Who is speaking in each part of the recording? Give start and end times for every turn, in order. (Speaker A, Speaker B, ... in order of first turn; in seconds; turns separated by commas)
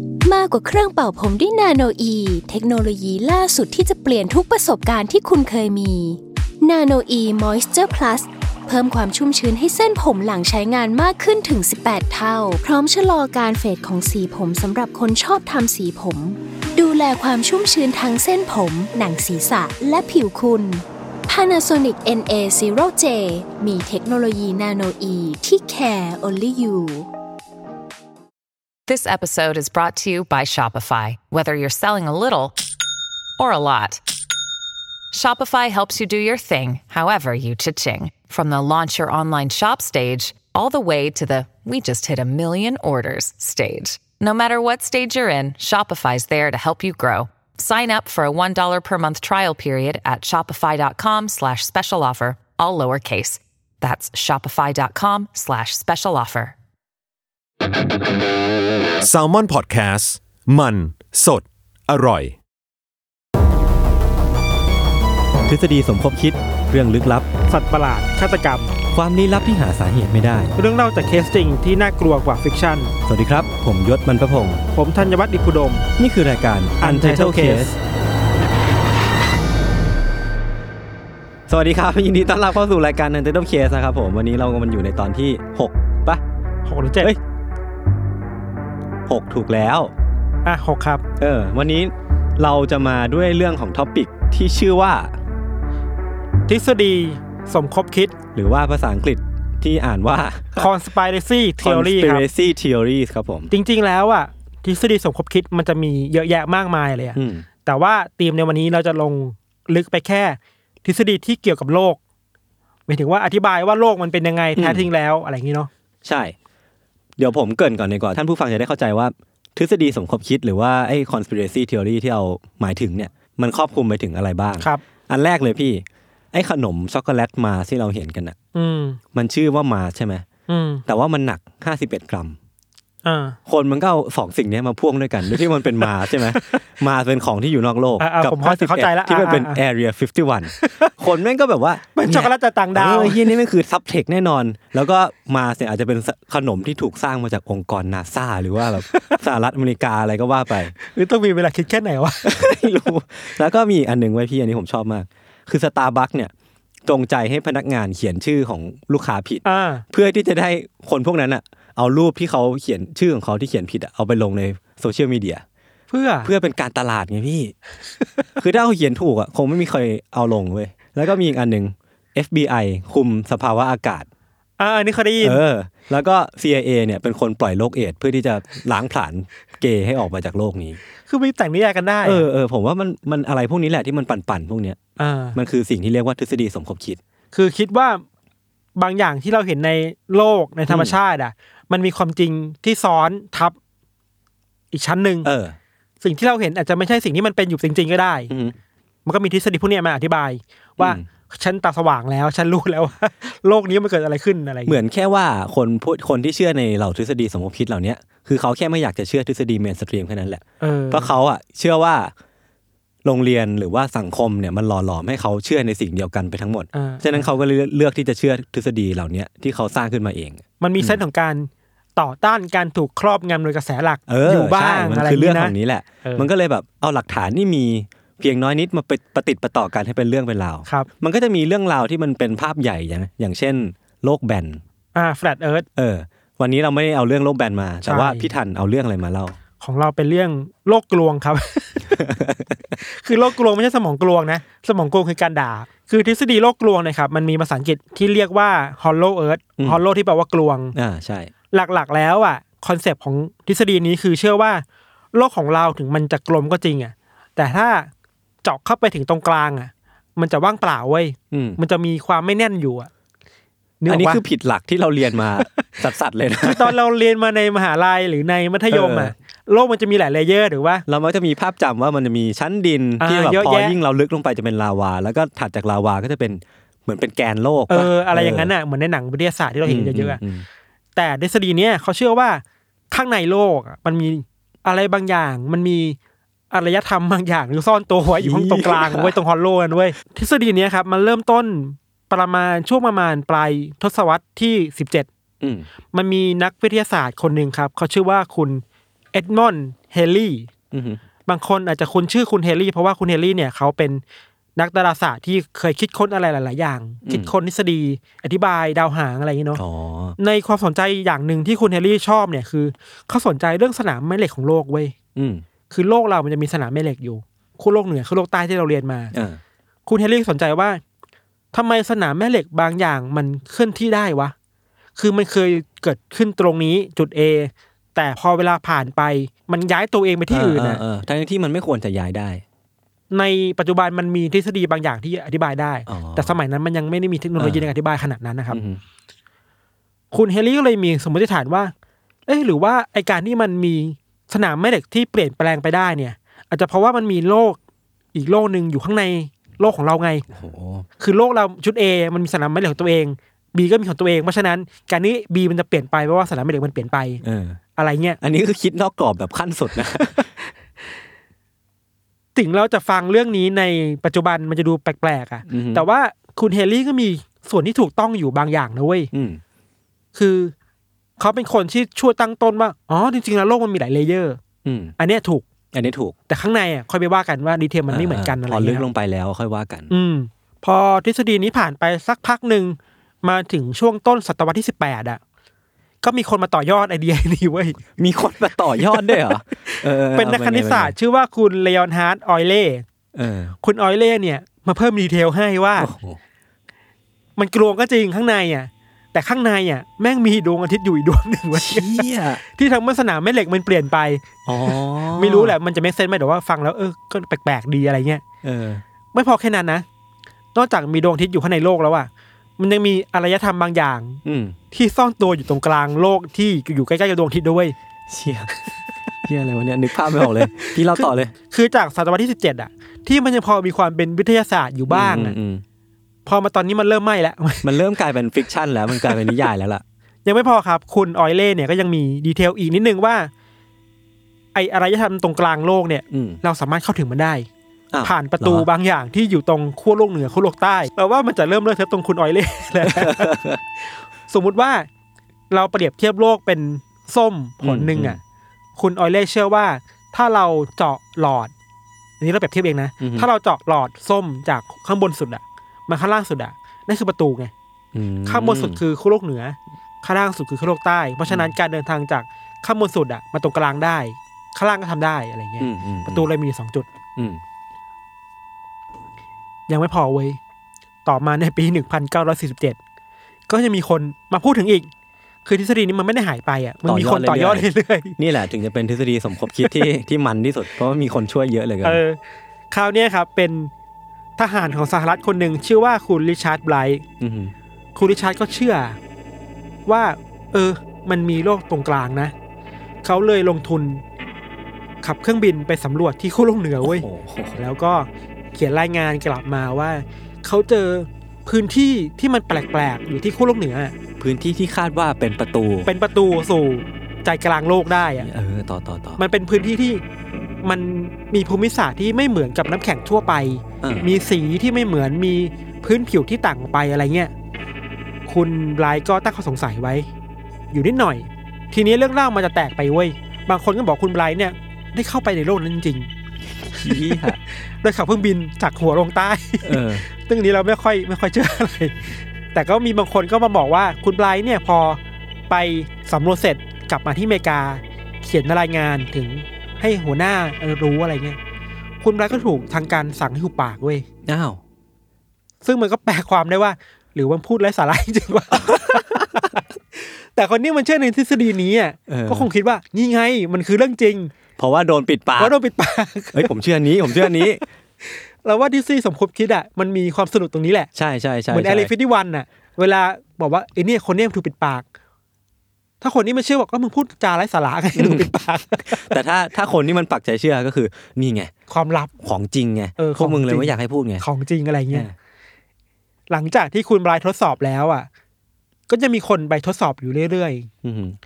Speaker A: 0.2-27.1, Speaker B: 28.9-32.5, Speaker B: 33.4-34.0, Speaker B: 35.1-56.5, Speaker C: 59.0-62.4, Speaker D: 65.5-67.3, Speaker E: 67.5-68.7, Speaker D: 68.9-70.5, Speaker E: 70.6-72.9, Speaker D: 73.1-74.6, Speaker E: 74.7-75.9, Speaker D: 76.0-77.8, Speaker E: 76.8-77.8, Speaker D: 81.5-86.2, Speaker E: 86.6-87.1, Speaker D: 89.1-89.9, Speaker E: 90.4-91.0, Speaker D: 91.2-95.1, Speaker E: 96.5-98.1, Speaker D: 98.3-100.7, Speaker E: 100.6-102.2, Speaker D: 101.6-103.5, Speaker E: 103.5-112.0, Speaker D: 107.1-107.5, Speaker E: 112.9-115.7, Speaker D: 114.5-114.9, Speaker D: 116.0-116.3, Speaker D: 117.2-128.3, Speaker E: 128.5-129.0, Speaker D: 129.1-130.2, Speaker E: 130.5-130.8, Speaker D: 130.8-132.4, Speaker E: 133.0-133.4, Speaker D: 133.5-150.7, Speaker E: 135.8-136.6, Speaker E: 138.0-139.6, Speaker E: 140.6-140.9, Speaker E: 141.9-143.4, Speaker E: 148.9-149.2, Speaker E: 150.8-152.5, Speaker D: 152.2-156.3, Speaker D: 156.8-165.4, Speaker E: 159.4-159.8, Speaker E: 165.9-166.3, Speaker D: 166.2-167.5, Speaker D: 168.4-174.1, Speaker E: 174.6-175.4, Speaker D: 175.2-180.8, Speaker E: 181.1-182.2, Speaker D: 182.0-184.8, Speaker E: 185.0-185.4, Speaker D: 185.3-187.0, Speaker E: 187.3-188.0, Speaker E: 188.8-193.6, Speaker D: 190.7-191.0, Speaker E: 194.7-195.3, Speaker D: 195.2-195.6, Speaker E: 196.0-198.3, Speaker D: 198.3-198.6, Speaker E: 199.1-204.8, Speaker D: 200.8-201.1, Speaker D: 204.7-212.1, Speaker E: 210.6-211.1, Speaker D: 213.0-221.0, Speaker E: 216.7-217.4, Speaker E: 220.6-226.3, Speaker D: 224.1-234.6, Speaker E: 234.9-235.7, Speaker D: 235.8-239.4, Speaker E: 237.8-238.3, Speaker E: 239.6-242.0, Speaker D: 241.9-242.7, Speaker E: 242.8-250.7, Speaker D: 250.7-251.3, Speaker E: 251.5-257.9, Speaker E: 258.4-262.9, Speaker D: 261.3-261.6, Speaker E: 263.8-264.2, Speaker D: 263.9-266.8, Speaker E: 266.4-270.8, Speaker D: 268.7-269.1, Speaker D: 270.9-278.5, Speaker E: 273.0-273.8, Speaker E: 277.7-280.2, Speaker D: 279.6-280.5, Speaker E: 280.9-286.0, Speaker E: 286.5-295.1, Speaker D: 288.2-289.2, Speaker D: 295.4-295.7, Speaker E: 295.9-300.5, Speaker D: 300.7-301.0, Speaker E: 301.2-304.0, Speaker E: 304.6-309.6, Speaker D: 307.0-307.3, Speaker D: 309.5-310.2, Speaker E: 310.2-314.9, Speaker D: 315.1-315.4, Speaker E: 315.7-319.1, Speaker D: 319.1-319.4, Speaker E: 319.9-320.8, Speaker E: 321.5-324.3, Speaker E: 325.0-330.8, Speaker D: 330.3-332.4, Speaker E: 333.1-338.6, Speaker D: 335.9-336.4, Speaker D: 337.4-337.7, Speaker D: 338.5-338.8, Speaker E: 340.1-341.7, Speaker E: 342.2-347.6, Speaker E: 348.1-350.2, Speaker D: 350.3-350.9, Speaker E: 351.0-357.2, Speaker D: 357.2-357.6, Speaker E: 357.8-358.2, Speaker D: 358.2-360.3, Speaker E: 362.3-369.1, Speaker D: 365.5-365.9, Speaker D: 369.1-369.4, Speaker E: 370.1-370.5, Speaker E: 371.2-374.4, Speaker D: 374.6-374.9, Speaker E: 375.0-375.4, Speaker D: 375.7-376.1, Speaker E: 376.3-378.9, Speaker D: 377.9-379.9, Speaker E: 379.9-385.2, Speaker E: 386.0-387.8, Speaker D: 388.0-390.9, Speaker E: 388.9-392.8, Speaker D: 393.1-393.5, Speaker E: 393.6-395.9, Speaker D: 395.8-396.2, Speaker E: 397.4-408.2, Speaker D: 401.5-402.4, Speaker D: 404.4-405.6, Speaker D: 408.4-408.8, Speaker E: 409.1-409.8, Speaker E: 410.5-417.7, Speaker D: 414.2-414.6, Speaker D: 418.1-418.5, Speaker D: 419.2-421.3, Speaker E: 420.2-425.3, Speaker D: 424.9-425.6, Speaker E: 426.2-427.7, Speaker D: 427.6-429.8, Speaker E: 429.0-429.3, Speaker E: 430.2-433.3, Speaker E: 434.5-437.5, Speaker D: 436.1-436.4, Speaker D: 437.9-438.7, Speaker E: 438.0-443.3, Speaker D: 442.8-443.6, Speaker E: 443.9-444.9, Speaker E: 445.5-448.2, Speaker D: 447.6-448.2, Speaker E: 448.8-451.5, Speaker E: 452.2-457.5, Speaker D: 453.0-453.3, Speaker D: 457.9-458.8, Speaker E: 458.2-466.9, Speaker D: 461.2-461.5, Speaker D: 465.6-466.3, Speaker D: 467.1-467.4, Speaker E: 469.7-470.4, Speaker E: 471.0-472.8, Speaker E: 473.5-474.9, Speaker E: 475.4-478.2, Speaker D: 476.8-482.0, Speaker E: 481.8-482.2, Speaker E: 482.7-483.7, Speaker E: 484.4-487.0, Speaker D: 487.2-487.5, Speaker E: 487.9-489.0, Speaker E: 489.9-492.3, Speaker E: 493.0-494.0, Speaker E: 495.0-503.9, Speaker D: 496.8-497.6, Speaker D: 504.2-505.9, Speaker E: 505.9-508.3, Speaker D: 508.1-509.2, Speaker E: 509.2-510.0, Speaker E: 510.6-517.3, Speaker D: 513.8-514.1, Speaker E: 518.2-520.1, Speaker E: 520.7-526.1, Speaker D: 526.6-527.4, Speaker E: 526.7-541.4, Speaker D: 529.6-530.0, Speaker E: 542.0-544.0, Speaker D: 544.2-544.6, Speaker E: 545.6-554.3, Speaker D: 548.6-549.4, Speaker D: 552.1-552.5, Speaker D: 554.6-555.5, Speaker E: 555.4-556.5, Speaker D: 556.3-557.6, Speaker E: 557.1-557.5, Speaker E: 558.0-560.9, Speaker D: 560.9-561.9, Speaker E: 561.5-564.8, Speaker E: 566.0-569.1, Speaker D: 567.9-568.3, Speaker D: 568.8-571.5, Speaker E: 571.7-572.1, Speaker D: 572.2-574.2, Speaker E: 573.0-575.1, Speaker E: 576.3-578.1, Speaker E: 578.9-580.7, Speaker D: 580.8-581.2